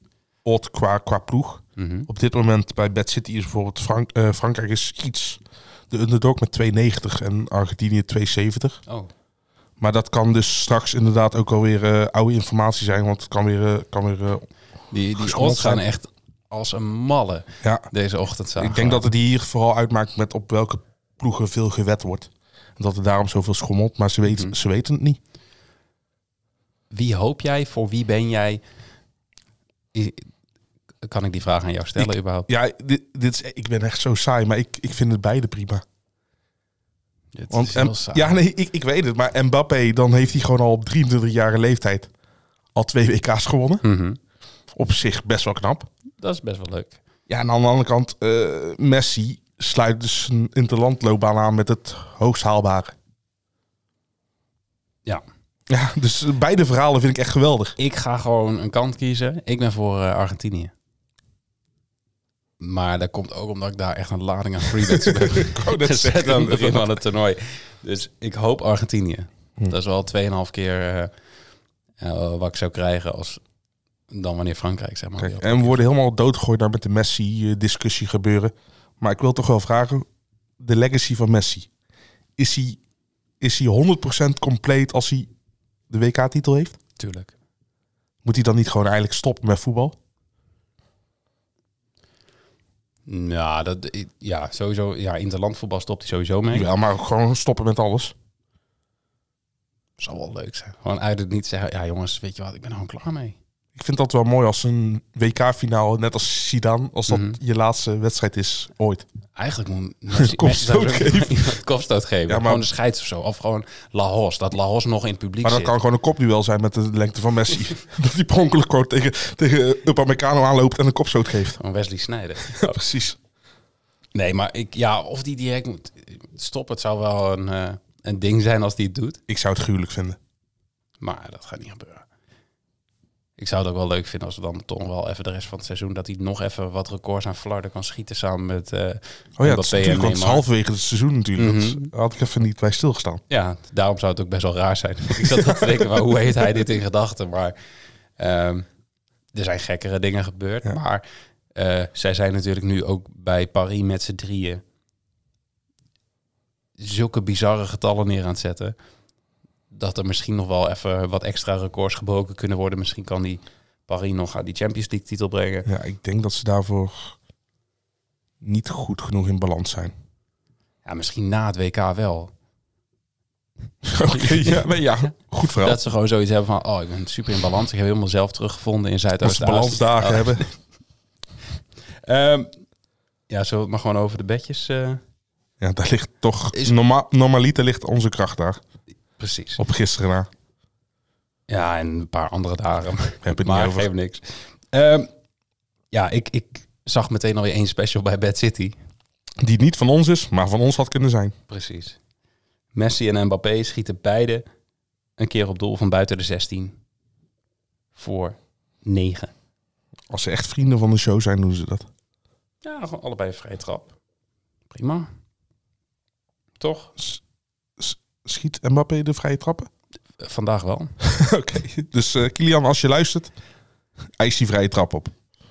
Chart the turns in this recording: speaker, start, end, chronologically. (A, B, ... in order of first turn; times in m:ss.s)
0:00.4-0:08.8 A
0:01.8-0:02.1 B
0:09.8-0:14.5 A
0:14.9-0:19.1 B
0:15.2-0:15.8 A
0:17.6-0:17.9 A
0:18.6-0:25.2 A
0:24.3-0:24.6 B
0:26.9-0:28.6 B
0:29.9-0:30.3 B
0:31.0-0:32.5 B
0:32.0-0:35.8 A
0:37.4-0:38.4 B
0:37.5-0:42.1 A
0:42.8-0:43.8 A
0:43.8-0:44.2 B
0:44.7-0:45.9 A
0:46.2-0:47.0 B
0:47.3-0:52.9 A
0:55.7-0:57.8 A
0:57.8-1:00.7 B
1:02.6-1:11.1 B
1:04.8-1:07.0 A
1:12.0-1:13.4 B
1:14.1-1:15.8 B
1:15.2-1:20.1 A
1:20.6-1:21.7 A
1:22.4-1:22.8 A
1:23.4-1:25.3 A
1:25.9-1:26.8 A
1:27.0-1:27.3 B
1:28.2-1:30.0 A
1:33.1-1:36.7 B
1:36.5-1:38.1 A
1:40.0-1:43.4 B
1:43.8-1:49.0 A
1:47.1-1:47.4 B
1:49.4-1:55.7 B
1:50.1-1:51.5 A
1:52.3-1:52.6 A
1:55.4-2:01.6 A
2:01.6-2:02.8 B
2:02.5-2:03.2 A
2:04.2-2:09.2 B
2:09.3-2:10.2 A
2:11.0-2:12.1 B
2:13.4-2:20.4 B
2:19.4-2:23.2 A
2:21.4-2:21.9 B
2:23.3-2:27.6 B
2:25.2-2:25.9 A
2:28.2-2:28.7 B
2:29.3-2:34.6 B
2:36.8-2:38.8 B
2:39.7-2:45.7 B
2:45.7-2:47.2 A
2:48.4-2:49.9 A
2:50.8-2:52.3 B
2:53.8-2:55.8 A
2:54.1-2:54.8 B
2:55.6-3:00.5 B
2:59.2-3:00.4 A
3:02.1-3:02.5 B
3:03.3-3:05.0 B
3:05.6-3:08.6 A
3:09.2-3:09.6 B
3:09.6-3:10.3 A
3:11.5-3:15.1 B
3:13.2-3:13.9 A
3:15.9-3:18.8 B
3:19.4-3:21.3 A
3:21.5-3:22.0 B
3:22.7-3:24.4 B
3:25.2-3:26.8 B
3:28.0-3:29.3 B
3:30.1-3:31.9 A
3:32.6-3:33.9 B
3:34.7-3:35.1 B
3:36.6-3:36.9 B
3:37.8-3:39.7 A
3:40.2-3:40.9 B
3:41.0-3:43.3 A
3:44.2-3:45.1 A